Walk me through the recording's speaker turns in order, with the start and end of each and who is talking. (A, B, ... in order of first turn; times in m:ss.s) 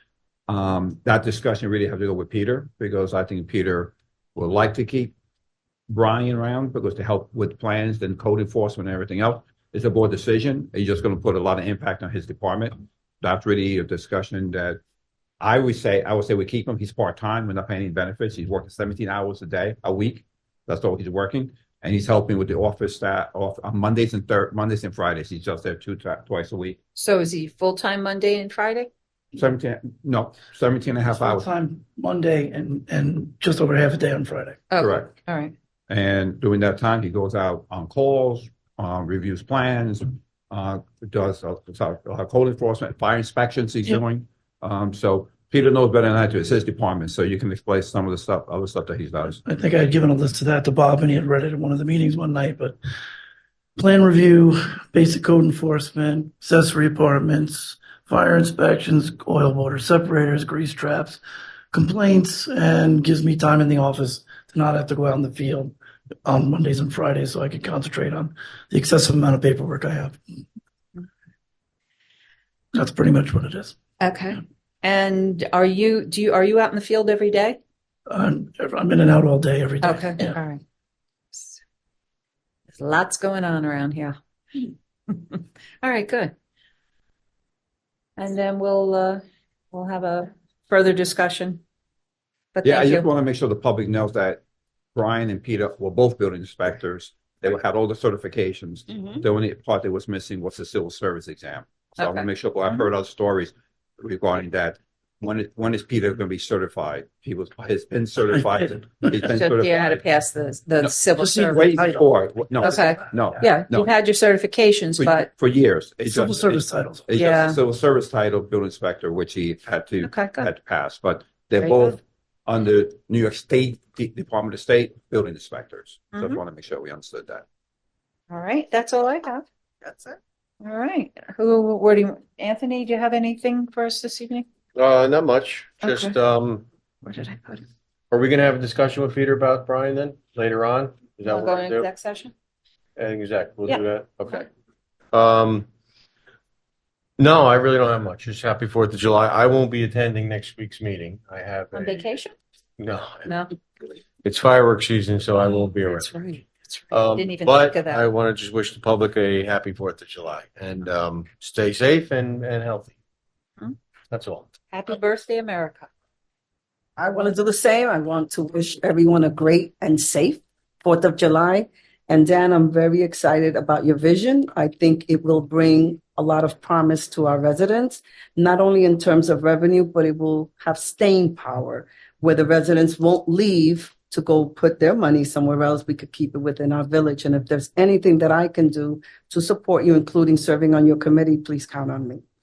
0:00.5-0:05.1 A
0:05.9-0:14.8 A
0:15.4-0:26.8 A
0:26.9-0:28.9 B
0:29.3-0:31.4 A
0:31.2-0:34.6 C
0:34.7-0:35.5 B
0:34.8-0:35.1 A
0:35.9-0:49.4 A
0:49.4-0:52.8 C
0:53.8-1:01.2 C
1:01.7-1:05.7 C
1:06.2-1:10.2 C
1:12.7-1:13.7 C
1:14.0-1:17.6 B
1:18.1-1:20.4 C
1:19.8-1:20.6 B
1:21.3-1:21.6 B
1:22.8-1:26.3 B
1:28.2-1:29.2 B
1:29.7-1:31.6 B
1:32.5-1:33.0 B
1:32.6-1:34.4 A
1:34.9-1:50.0 A
1:42.0-1:42.2 B
1:49.3-1:52.0 B
1:50.8-1:53.9 A
1:52.6-1:55.3 B
1:55.0-2:07.4 A
1:56.1-1:57.1 C
1:57.1-1:57.6 B
2:00.0-2:00.5 B
2:01.6-2:02.0 B
2:06.1-2:06.4 B
2:08.3-2:14.4 B
2:14.7-2:16.7 D
2:15.8-2:16.2 B
2:17.0-2:17.6 B
2:18.1-2:21.9 D
2:21.2-2:22.3 B
2:23.0-2:24.4 D
2:25.1-2:25.7 D
2:27.2-2:32.0 D
2:31.7-2:32.3 B
2:32.8-2:33.3 D
2:34.2-2:36.1 D
2:35.4-2:38.0 B
2:36.9-2:43.0 D
2:44.1-2:44.5 D
2:44.7-2:45.9 B
2:47.0-3:12.2 E